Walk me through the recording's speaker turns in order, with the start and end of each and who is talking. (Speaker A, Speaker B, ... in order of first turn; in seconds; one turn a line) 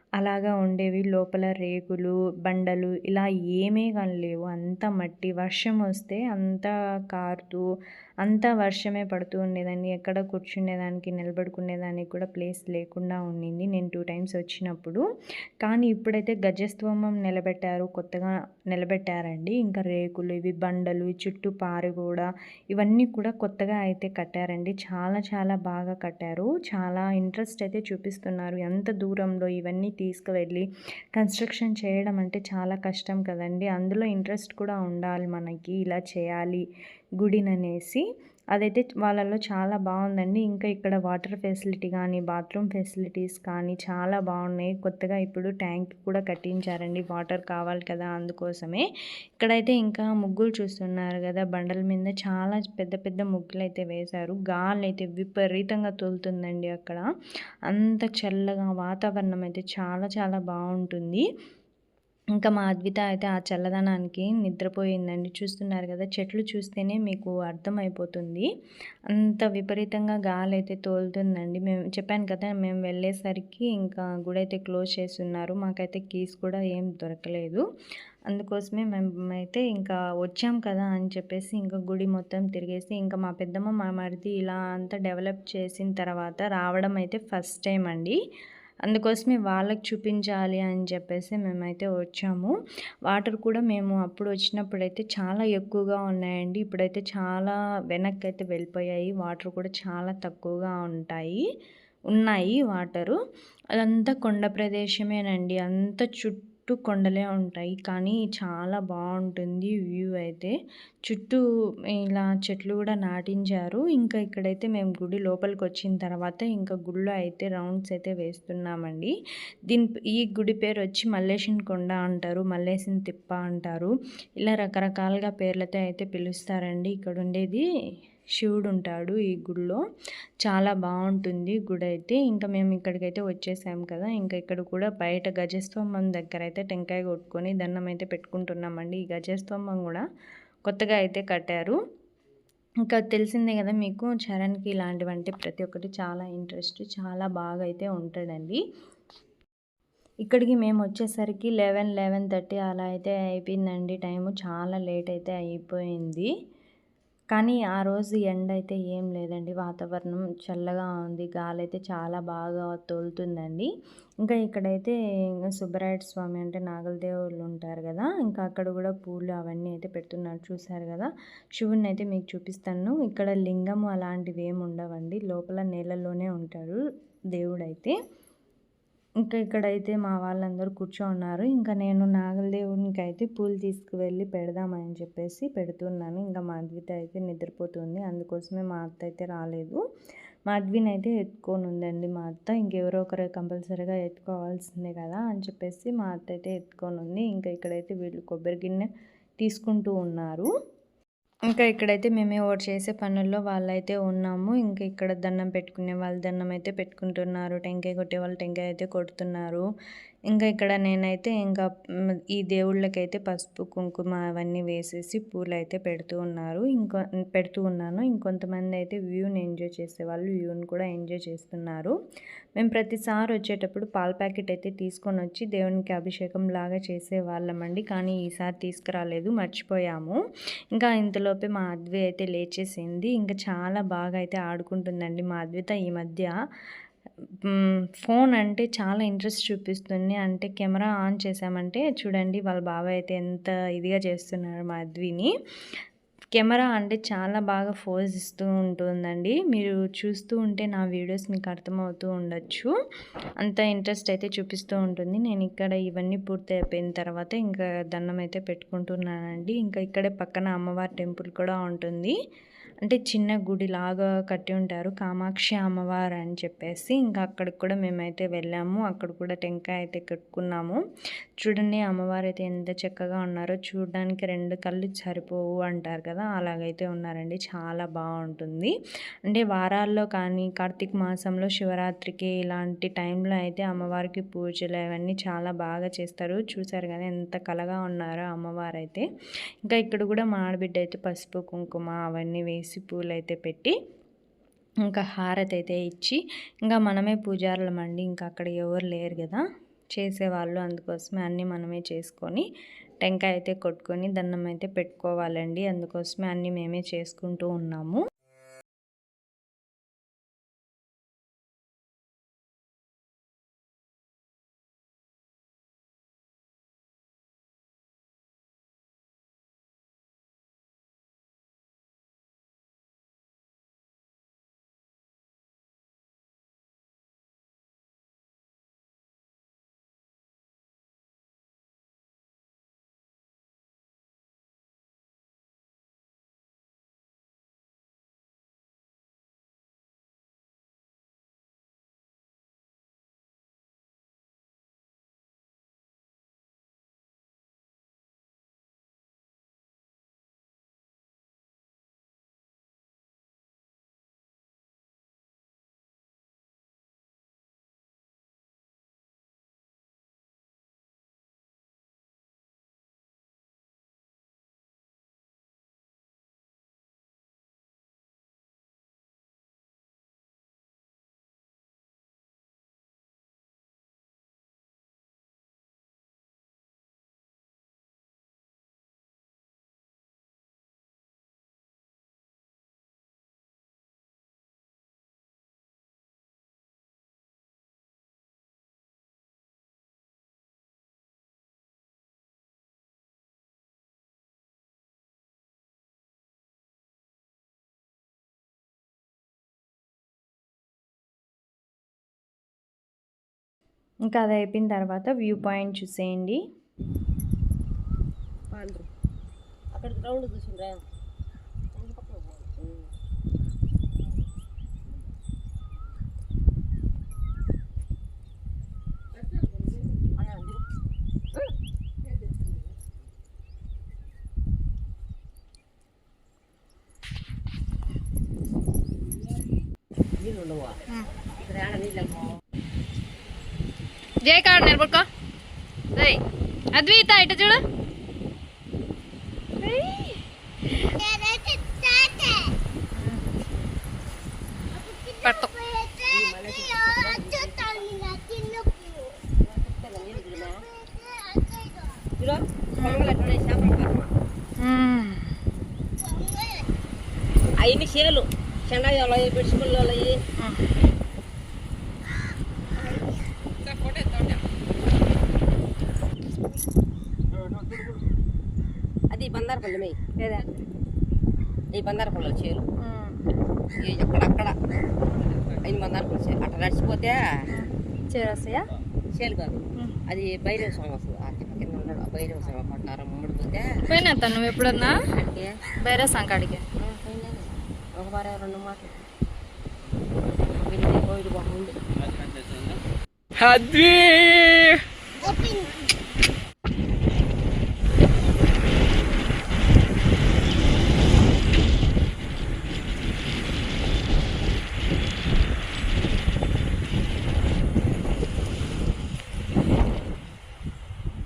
Speaker A: 0.2-7.6
Speaker A: 8.2-15.0
Speaker A: 15.6-36.6
Speaker A: 37.2-48.9
Speaker A: 49.4-57.1
Speaker A: 57.7-61.2
Speaker A: 62.4-68.5
Speaker A: 69.1-77.6
Speaker A: 78.3-88.2
Speaker A: 88.9-92.5
Speaker A: 93.1-101.4
Speaker A: 102.1-103.2
Speaker A: 103.7-110.5
Speaker A: 111.1-111.4
Speaker A: 112.0-119.1
Speaker A: 119.7-127.6
Speaker A: 128.4-129.8
Speaker A: 130.4-140.0
Speaker A: 140.7-141.8
Speaker A: 142.8-148.6
Speaker A: 150.2-156.3
Speaker A: 157.3-163.7
Speaker A: 164.2-178.0
Speaker A: 179.2-189.8
Speaker A: 190.5-198.9
Speaker A: 199.4-200.5
Speaker A: 201.5-209.6
Speaker A: 210.3-211.7
Speaker A: 212.3-221.9
Speaker A: 222.6-230.2
Speaker A: 230.7-236.3
Speaker A: 237.4-245.3
Speaker A: 246.3-252.7
Speaker A: 253.4-262.2
Speaker A: 262.8-270.8
Speaker A: 271.4-278.7
Speaker A: 279.3-289.1
Speaker A: 289.6-293.7
Speaker A: 294.9-299.4
Speaker A: 299.9-302.4
Speaker A: 303.0-308.0
Speaker A: 404.1-406.4
Speaker B: 408.5-408.9
Speaker B: 409.7-410.8
Speaker B: 411.7-412.9
Speaker B: 420.0-420.6
Speaker B: 430.2-432.3
Speaker C: 434.2-435.1
Speaker C: 435.9-436.2
Speaker C: 436.7-437.6
Speaker C: 439.6-440.2
Speaker C: 442.9-443.2
Speaker C: 445.2-445.5
Speaker B: 446.1-448.6
Speaker B: 449.4-450.6
Speaker B: 452.2-454.1
Speaker C: 452.8-453.0
Speaker C: 454.6-455.3
Speaker B: 457.6-460.2
Speaker C: 460.4-460.7
Speaker B: 463.6-464.4
Speaker B: 467.3-468.0
Speaker B: 469.1-470.0
Speaker C: 470.2-470.5
Speaker B: 471.7-472.6
Speaker C: 472.8-473.2
Speaker B: 473.8-474.6
Speaker B: 475.5-477.2
Speaker C: 477.5-478.7
Speaker B: 479.1-483.7
Speaker C: 483.9-485.0
Speaker B: 485.0-485.6
Speaker C: 485.8-486.6
Speaker B: 486.8-489.0
Speaker B: 490.5-491.8
Speaker C: 493.4-494.8